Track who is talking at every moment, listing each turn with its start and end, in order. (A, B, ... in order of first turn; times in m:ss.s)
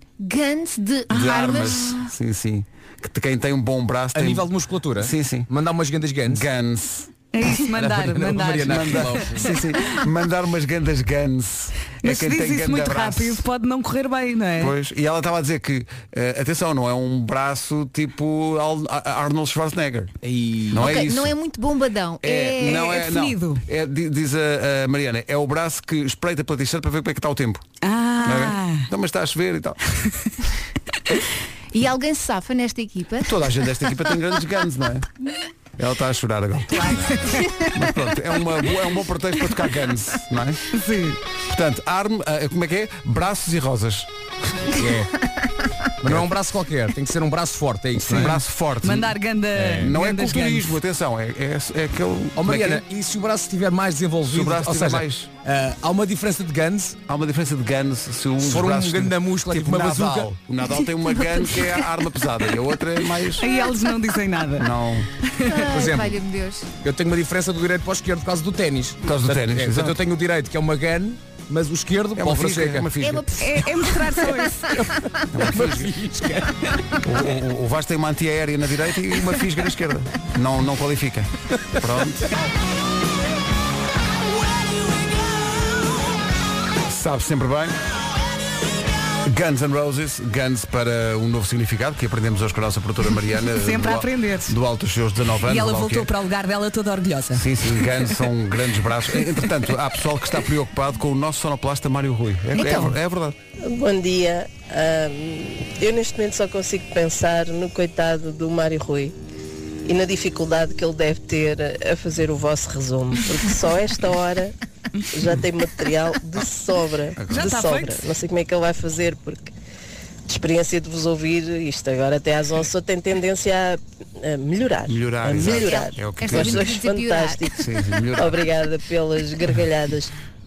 0:00.2-0:02.0 A
0:01.1-0:05.5 B
0:01.1-0:01.9 C
0:04.1-0:06.4 D
0:06.3-0:07.1 B
0:07.3-0:10.0 C
0:07.7-0:09.6 D
0:08.6-0:13.4 B
0:12.0-0:14.8 C
0:14.6-0:20.1 B
0:20.2-0:21.1 D
0:20.7-0:21.4 B
0:20.7-0:22.9 A
0:22.2-0:27.6 B
0:22.6-0:23.6 C
0:27.8-0:28.9 C
0:28.2-0:29.8 B
0:31.7-0:33.4 A
0:33.2-0:35.1 B
0:35.8-0:37.0 B
0:36.8-0:37.3 D
0:37.4-0:37.7 A
0:37.7-0:40.6 B
0:40.7-0:41.2 C
0:41.4-0:44.1 B
0:44.8-0:45.1 D
0:46.0-0:48.4 D
0:48.0-0:49.1 B
0:48.8-0:50.7 C
0:49.6-0:49.9 D
0:49.8-0:52.8 B
0:52.4-0:57.0 D
0:54.3-0:55.3 B
0:57.1-1:03.5 B
0:58.4-1:00.3 D
1:03.4-1:04.7 C
1:04.6-1:05.1 B
1:05.5-1:06.7 A
1:05.7-1:06.2 D
1:06.8-1:12.9 D
1:09.0-1:10.0 B
1:12.2-1:13.3 B
1:13.0-1:14.7 A
1:13.4-1:14.8 C
1:14.8-1:16.6 D
1:15.3-1:16.0 B
1:17.0-1:22.3 B
1:26.9-1:27.8 B
1:29.2-1:36.1 B
1:33.5-1:34.6 C
1:35.4-1:37.6 C
1:37.3-1:43.4 B
1:42.6-1:43.0 A
1:43.6-1:49.2 E
1:49.8-1:54.6 E
1:55.1-1:59.5 E
1:57.2-1:57.5 B
1:57.3-1:58.1 C
2:00.3-2:10.1 E
2:04.8-2:06.7 B
2:05.3-2:07.5 A
2:07.6-2:08.4 B